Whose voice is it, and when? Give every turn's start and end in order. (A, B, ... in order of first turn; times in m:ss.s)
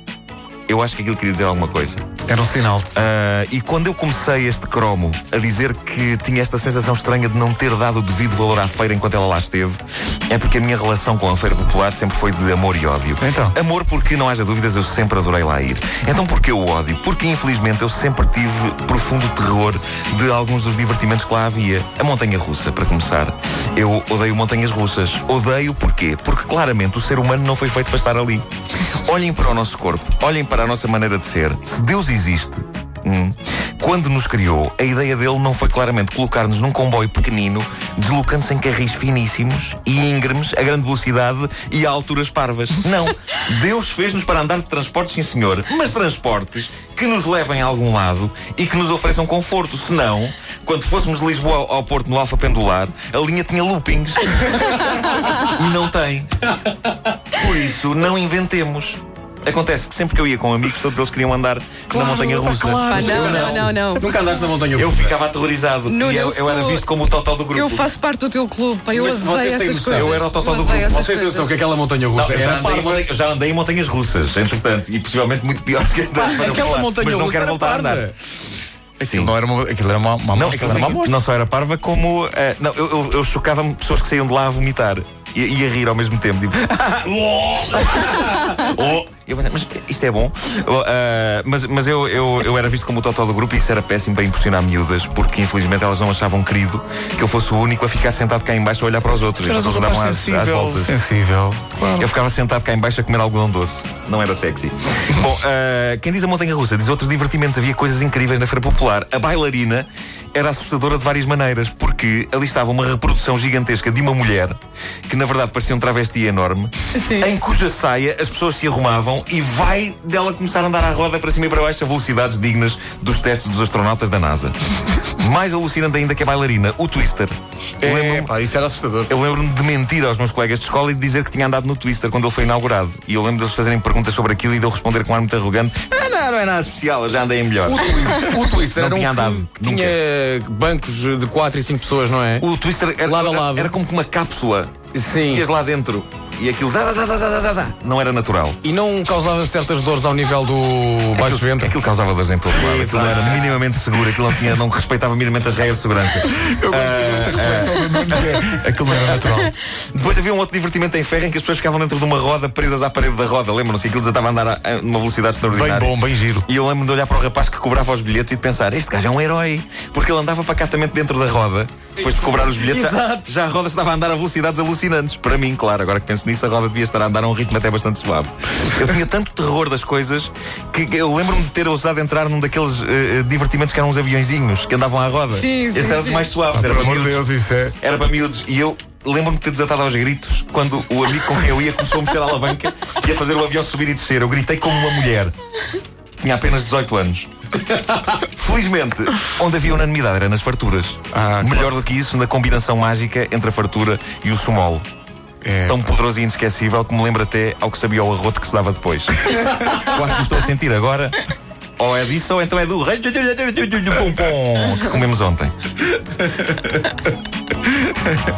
0:00.7-0:02.1 A
0:02.3-0:02.9 B
0:02.9-0:54.6 A
0:13.2-0:13.6 B
0:54.7-0:55.6 C
0:55.4-0:56.3 A
0:56.6-0:57.1 C
0:57.3-1:03.3 A
1:01.9-1:03.7 B
1:02.9-1:04.1 D
1:02.9-1:05.1 C
1:04.8-1:07.9 A
1:05.9-1:06.9 D
1:07.5-1:11.6 D
1:08.9-1:10.3 C
1:09.9-1:11.0 A
1:10.8-1:13.1 C
1:12.1-1:18.0 A
1:16.1-1:18.1 C
1:19.0-1:19.3 A
1:19.0-1:21.0 B
1:20.4-1:40.9 A
1:20.4-1:21.1 C
1:39.4-1:42.1 B
1:42.0-2:04.6 A
1:56.9-1:57.3 D
2:05.1-2:08.4 A
2:07.8-2:09.2 B
2:09.1-2:18.0 A
2:17.7-2:22.5 C
2:18.7-2:20.0 A
2:22.4-2:28.6 A
2:23.0-2:23.7 C
2:24.9-2:25.4 C
2:28.6-2:31.8 C
2:31.2-3:07.2 A
2:32.5-2:33.6 C
2:36.4-2:39.6 B
2:45.4-2:46.5 B
2:52.0-2:53.3 C
3:05.3-3:06.3 D
3:06.5-3:07.8 B
3:07.8-3:15.3 A
3:16.2-3:17.3 A
3:18.1-3:24.8 A
3:21.1-3:21.8 B
3:25.4-3:25.8 B
3:25.7-3:31.2 A
3:31.8-3:36.9 A